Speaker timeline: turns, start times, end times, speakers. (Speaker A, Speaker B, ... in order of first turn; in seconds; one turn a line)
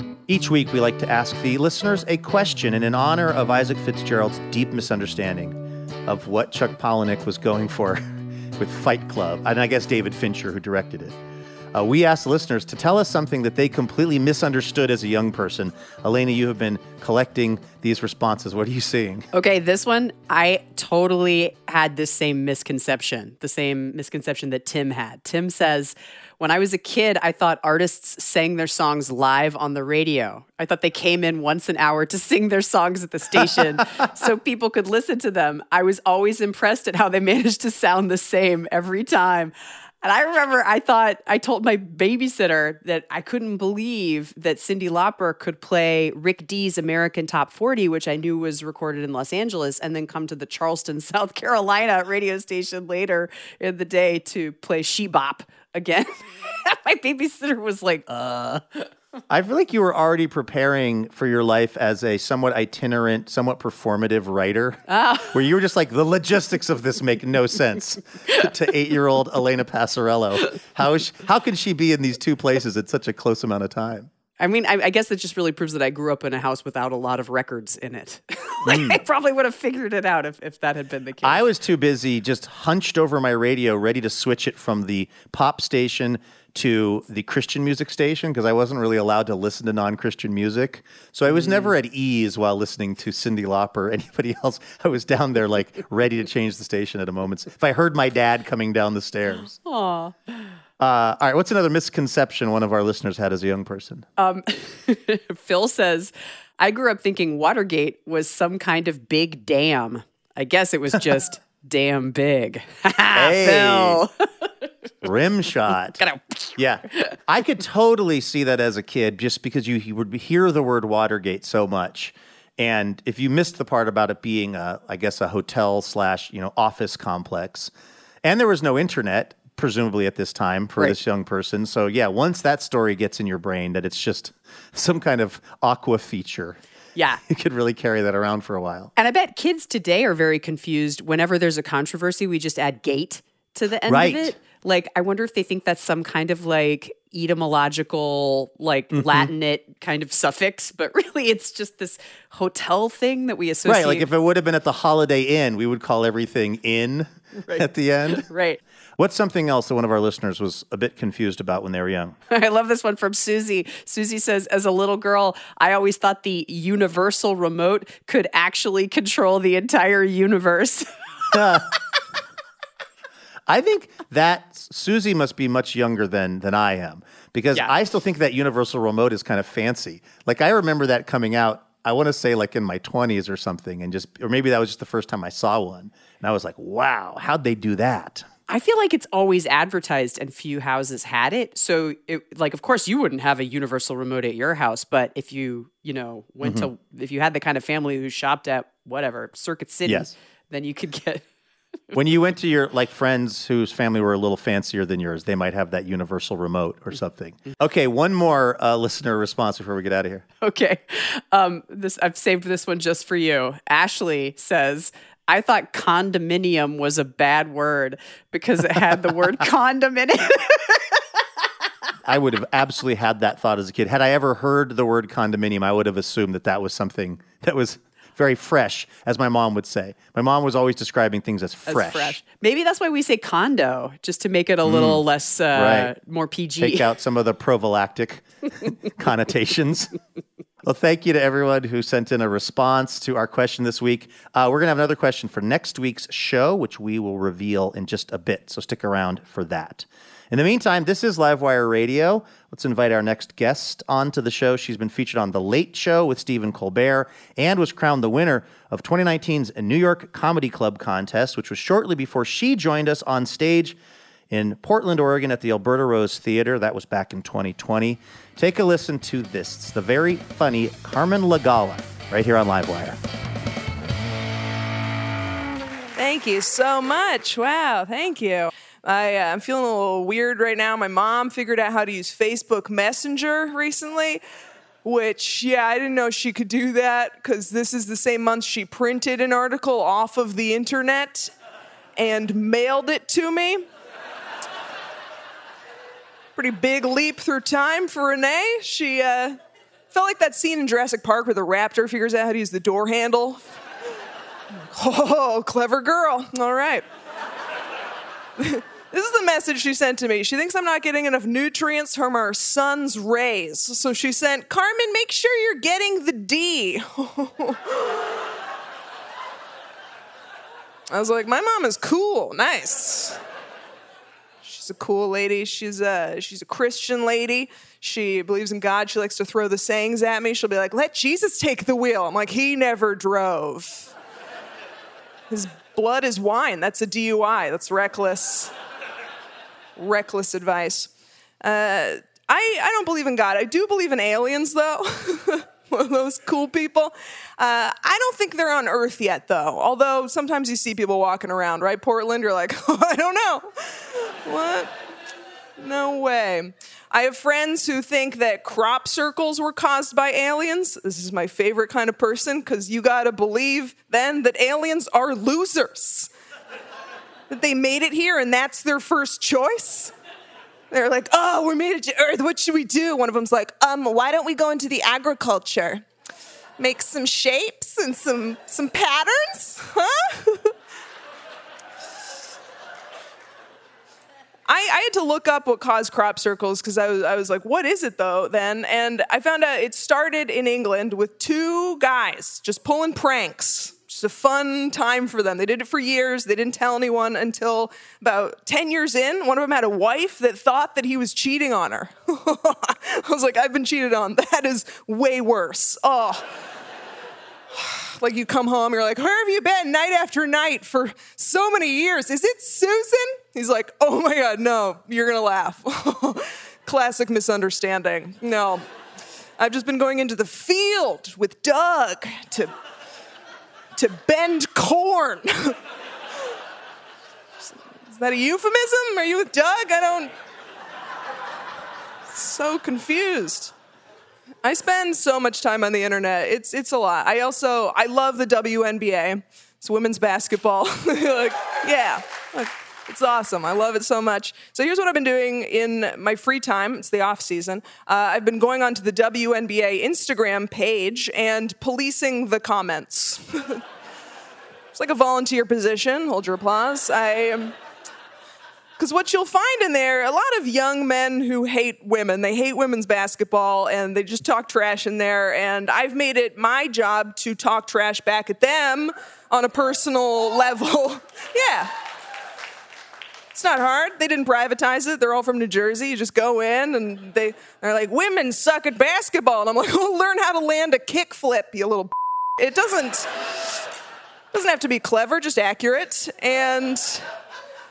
Speaker A: 0.3-8.0
Speaker A: 8.6-11.2
Speaker A: 11.7-19.3
Speaker B: 19.3-58.9
Speaker A: 59.3-74.1
Speaker B: 64.9-65.4
Speaker B: 74.4-81.5
Speaker A: 78.7-79.0
Speaker A: 81.2-99.5
Speaker B: 91.3-91.7
Speaker B: 99.5-100.5
Speaker A: 100.8-104.1
Speaker B: 104.2-114.5
Speaker A: 113.1-114.0
Speaker A: 115.0-116.0
Speaker B: 116.0-117.2
Speaker A: 116.6-127.7
Speaker A: 128.2-136.6
Speaker B: 137.0-137.2
Speaker A: 137.3-138.9
Speaker B: 139.0-154.1
Speaker A: 143.9-144.3
Speaker A: 148.9-149.3
Speaker A: 153.7-158.2
Speaker B: 157.4-158.6
Speaker A: 159.0-162.2
Speaker B: 162.3-170.9
Speaker A: 171.3-171.7
Speaker A: 173.5-188.3
Speaker B: 188.5-201.2
Speaker A: 196.4-196.7
Speaker A: 199.9-200.1
Speaker A: 201.9-210.2
Speaker B: 210.4-221.0
Speaker A: 222.1-232.2
Speaker B: 231.7-236.9
Speaker A: 234.7-235.9
Speaker A: 236.6-239.9
Speaker A: 240.6-263.8
Speaker A: 264.3-273.0
Speaker C: 276.0-284.2
Speaker C: 284.8-291.3
Speaker C: 292.0-293.7
Speaker C: 296.4-299.4
Speaker C: 299.9-303.6
Speaker C: 304.7-306.9
Speaker C: 308.4-318.0
Speaker C: 320.9-323.2
Speaker C: 324.4-333.9
Speaker C: 335.3-338.5
Speaker C: 339.8-340.9
Speaker C: 341.4-354.7
Speaker C: 355.6-366.1
Speaker C: 367.3-369.9
Speaker C: 370.7-375.8
Speaker C: 376.6-380.5
Speaker C: 384.5-406.3
Speaker C: 407.5-418.6
Speaker C: 419.4-422.5
Speaker C: 423.8-425.6
Speaker C: 427.4-430.1
Speaker C: 432.1-433.5
Speaker C: 434.4-453.6
Speaker C: 454.7-457.6
Speaker C: 458.8-471.7
Speaker C: 473.3-483.6
Speaker C: 484.3-487.0